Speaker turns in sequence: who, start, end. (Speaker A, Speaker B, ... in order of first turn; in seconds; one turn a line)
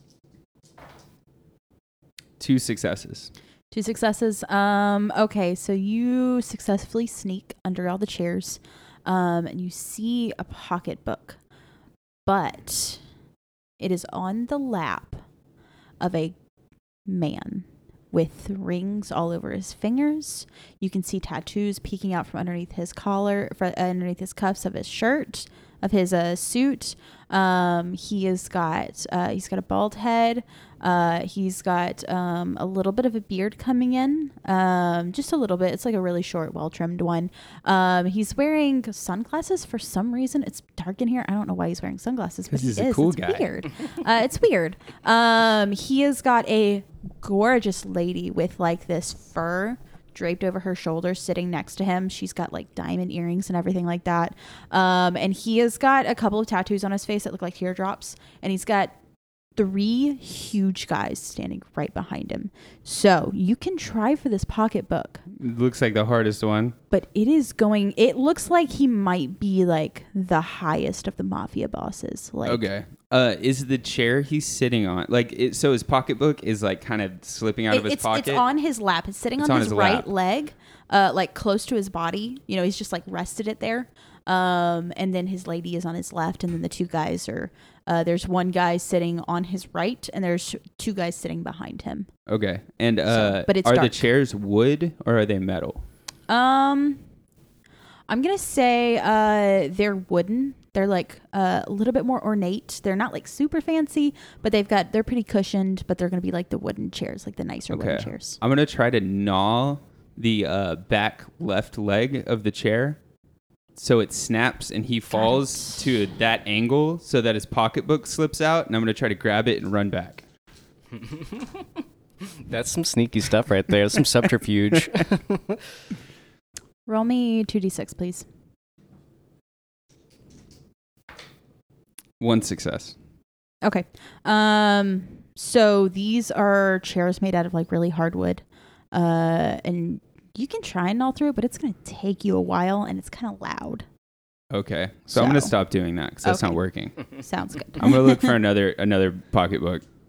Speaker A: 2.4-3.3
Speaker B: 3.7-11.4
Speaker B: 12.2-13.0
Speaker B: 13.8-15.2
Speaker B: 16.0-16.4
Speaker B: 17.1-59.0
Speaker A: 42.5-43.5
Speaker B: 59.6-65.2
Speaker A: 65.4-66.8
Speaker B: 66.9-72.6
Speaker A: 72.5-78.4
Speaker B: 77.7-92.1
Speaker A: 79.4-80.1
Speaker A: 92.3-95.8
Speaker B: 93.1-94.1
Speaker B: 96.3-97.0
Speaker B: 98.1-108.4
Speaker A: 107.7-113.0
Speaker A: 113.8-120.2
Speaker B: 115.1-115.8
Speaker C: 121.0-121.5
Speaker C: 122.4-125.5
Speaker B: 126.9-128.2
Speaker A: 132.2-132.9
Speaker B: 133.6-143.9
Speaker A: 144.5-149.8
Speaker B: 145.1-145.6
Speaker B: 146.2-148.3